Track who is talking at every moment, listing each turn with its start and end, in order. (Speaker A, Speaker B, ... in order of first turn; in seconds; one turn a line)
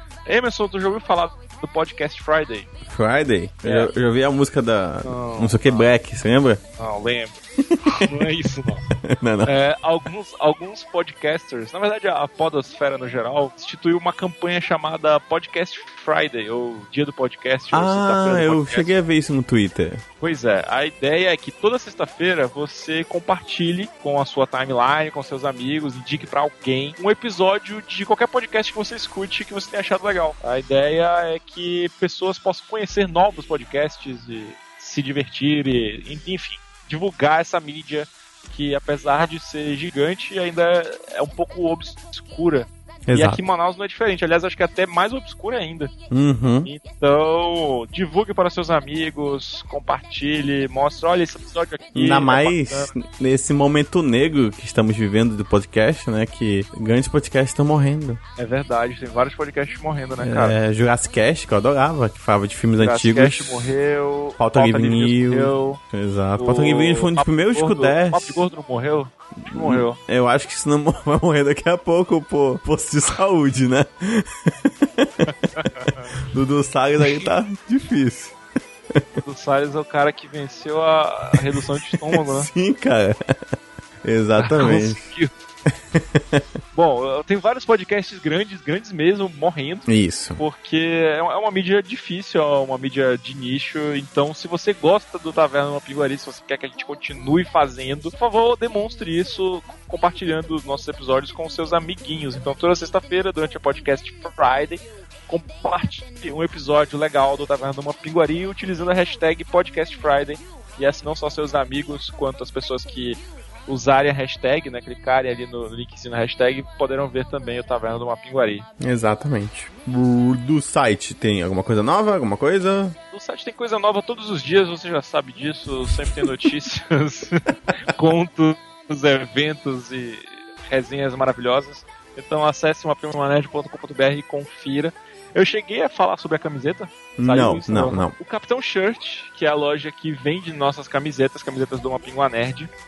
Speaker A: 0.2-2.7
Speaker B: 2.9-6.6
Speaker A: 3.6-3.9
Speaker A: 5.0-5.9
Speaker A: 6.8-8.8
Speaker B: 7.6-8.2
Speaker B: 9.0-9.5
Speaker A: 9.4-18.9
Speaker B: 17.7-20.0
Speaker A: 20.2-45.9
Speaker B: 43.1-43.4
Speaker B: 46.1-46.7
Speaker A: 46.6-52.9
Speaker B: 51.9-58.2
Speaker A: 58.4-60.6
Speaker B: 60.2-63.6
Speaker A: 62.8-65.8
Speaker B: 64.4-68.4
Speaker A: 66.4-70.0
Speaker B: 69.4-75.2
Speaker A: 75.5-76.1
Speaker B: 76.3-78.3
Speaker A: 77.0-77.3
Speaker A: 79.2-82.5
Speaker B: 82.0-83.4
Speaker B: 84.0-85.0
Speaker A: 84.4-85.3
Speaker B: 85.9-86.4
Speaker A: 86.7-118.7
Speaker B: 89.9-90.4
Speaker B: 118.8-123.0
Speaker A: 123.1-142.7
Speaker B: 137.2-138.1